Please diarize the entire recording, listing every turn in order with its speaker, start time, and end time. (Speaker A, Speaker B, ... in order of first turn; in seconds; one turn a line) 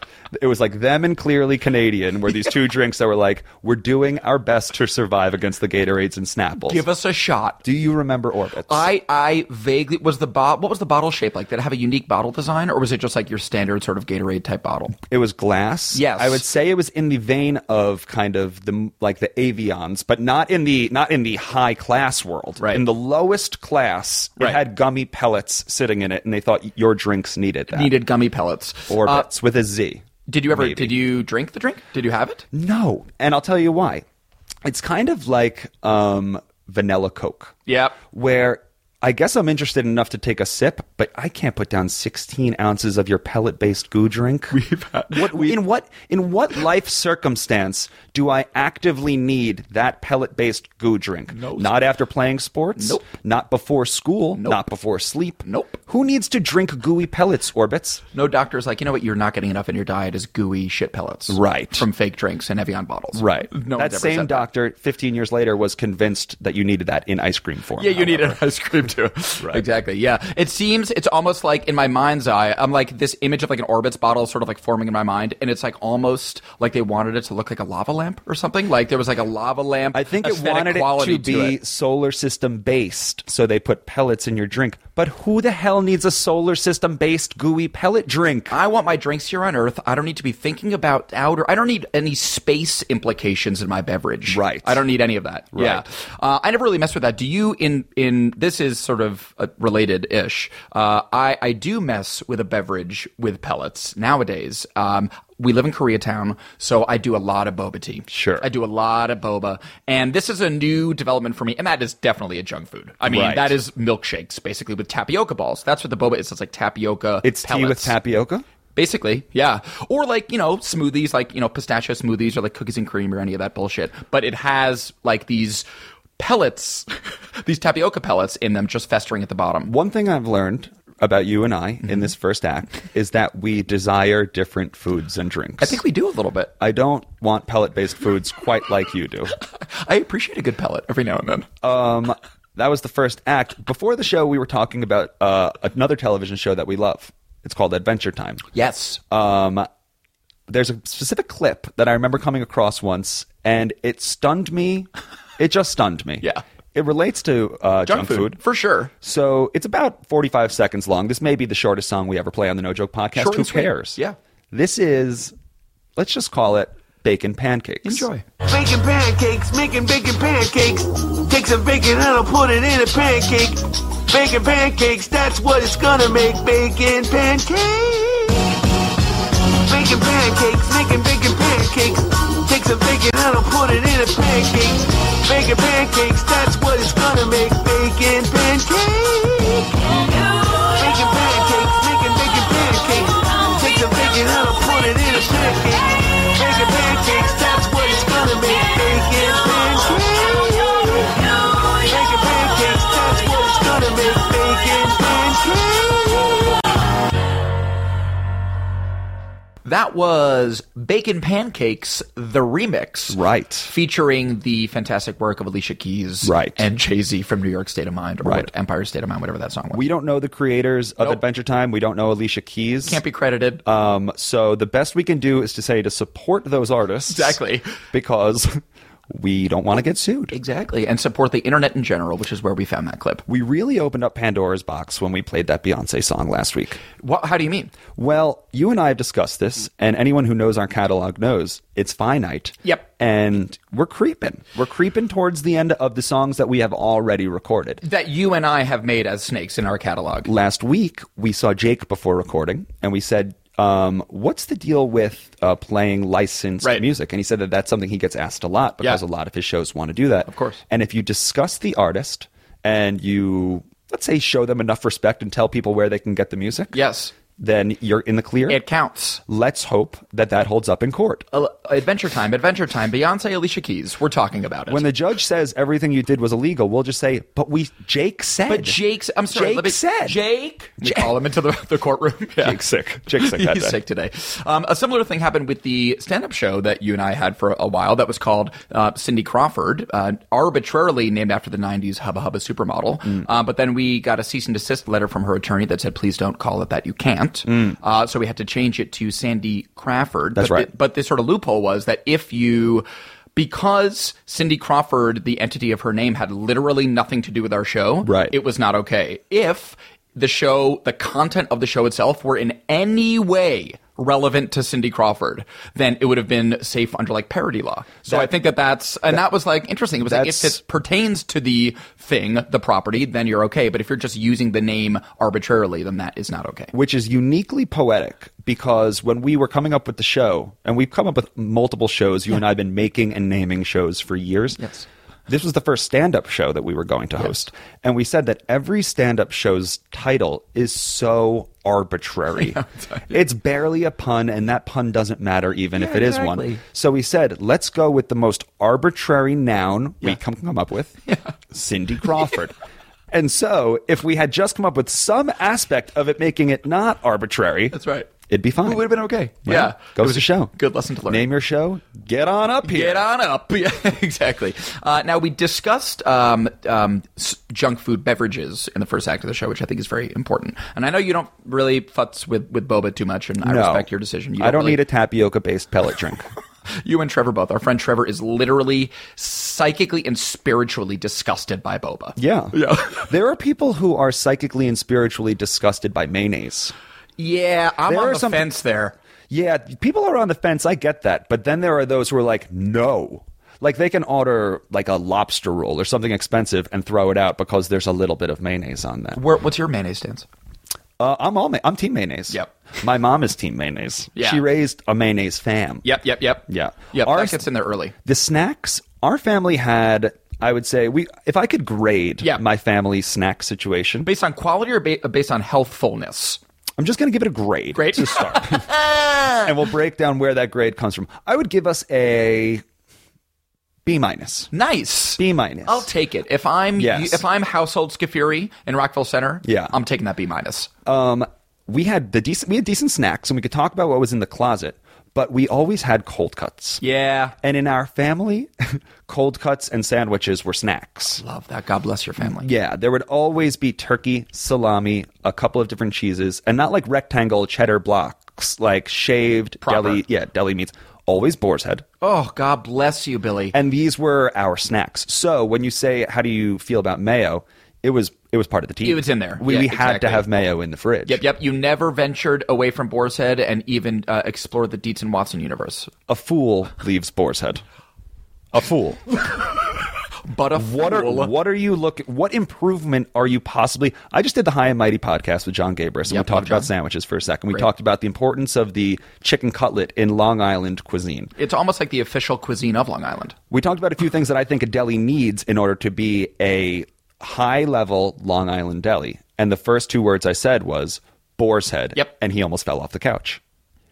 Speaker A: 0.3-6.8
Speaker B: 6.7-7.6
Speaker A: 7.6-8.9
Speaker B: 8.7-15.0
Speaker A: 15.1-27.9
Speaker B: 15.9-16.4
Speaker B: 22.6-22.9
Speaker B: 27.7-29.3
Speaker A: 28.9-31.0
Speaker B: 30.3-32.5
Speaker A: 32.5-34.0
Speaker A: 34.6-37.5
Speaker B: 37.7-38.0
Speaker A: 38.1-44.6
Speaker B: 44.5-45.6
Speaker A: 45.1-58.0
Speaker B: 51.3-51.8
Speaker B: 52.8-53.0
Speaker B: 54.4-54.6
Speaker B: 55.4-55.8
Speaker B: 58.1-64.5
Speaker A: 61.3-61.9
Speaker A: 63.1-68.4
Speaker B: 67.8-81.6
Speaker A: 79.9-88.6
Speaker B: 88.5-118.0
Speaker A: 94.3-94.8
Speaker A: 95.5-95.8
Speaker A: 108.1-108.5
Speaker A: 113.0-113.6
Speaker A: 117.2-118.5
Speaker B: 118.8-125.7
Speaker B: 126.2-129.7
Speaker A: 129.7-135.8
Speaker B: 135.6-136.5
Speaker A: 136.6-139.3
Speaker B: 139.6-141.5
Speaker A: 141.6-148.4
Speaker B: 148.5-149.0
Speaker A: 149.1-149.7
Speaker A: 150.5-158.4
Speaker B: 157.9-158.9
Speaker A: 159.0-164.0
Speaker B: 163.2-164.2
Speaker A: 164.5-165.3
Speaker A: 166.0-168.1
Speaker B: 167.8-168.2
Speaker C: 168.4-178.6
Speaker C: 179.5-206.6
Speaker B: 209.7-219.8
Speaker A: 213.1-213.7
Speaker A: 216.2-216.6
Speaker A: 218.2-218.5
Speaker A: 219.7-223.0
Speaker B: 222.8-223.6
Speaker A: 223.7-227.4
Speaker B: 227.1-227.7
Speaker A: 227.9-230.3
Speaker B: 230.3-233.2
Speaker A: 233.3-236.8
Speaker B: 237.0-237.7
Speaker A: 238.0-247.8
Speaker B: 247.8-250.3
Speaker A: 250.3-266.8
Speaker B: 260.3-260.6
Speaker B: 266.7-267.1
Speaker A: 267.4-268.6
Speaker B: 268.5-269.2
Speaker A: 269.3-271.3
Speaker B: 271.3-274.9
Speaker A: 274.7-278.8
Speaker B: 278.5-326.7
Speaker A: 279.3-280.2
Speaker A: 280.8-281.1
Speaker A: 282.4-283.8
Speaker A: 300.4-300.7
Speaker A: 308.0-308.4
Speaker A: 320.0-320.6
Speaker A: 326.7-334.7
Speaker B: 334.6-334.9
Speaker A: 335.3-352.6
Speaker B: 342.4-343.2
Speaker B: 345.8-346.6
Speaker B: 351.1-351.3
Speaker A: 353.1-358.9
Speaker B: 357.7-358.1
Speaker B: 358.6-361.3
Speaker A: 359.4-360.5
Speaker A: 361.1-363.1
Speaker B: 362.6-374.8
Speaker A: 373.4-373.9
Speaker A: 374.4-376.3
Speaker B: 376.8-383.1
Speaker A: 382.2-386.7
Speaker B: 387.2-388.9
Speaker A: 387.9-388.5
Speaker A: 389.3-399.2
Speaker B: 399.1-400.3
Speaker A: 401.0-405.9
Speaker B: 404.2-404.4
Speaker B: 405.8-407.9
Speaker A: 406.5-407.4
Speaker A: 408.1-414.1
Speaker B: 414.1-416.4
Speaker A: 416.8-418.7
Speaker B: 417.8-419.5
Speaker A: 419.4-422.6
Speaker A: 423.9-424.5
Speaker B: 424.5-430.7
Speaker A: 425.2-425.9
Speaker A: 426.8-427.2
Speaker A: 429.4-429.7
Speaker A: 430.9-436.8
Speaker B: 436.8-437.3
Speaker A: 437.4-441.2
Speaker B: 441.2-442.5
Speaker A: 442.2-451.9
Speaker B: 449.6-450.0
Speaker B: 452.0-453.6
Speaker A: 453.5-461.2
Speaker B: 458.8-460.5
Speaker B: 461.1-465.9
Speaker A: 466.1-467.6
Speaker A: 468.5-469.1
Speaker B: 470.2-471.3
Speaker A: 470.6-481.3
Speaker B: 476.1-476.7
Speaker B: 481.4-483.4
Speaker A: 483.5-493.4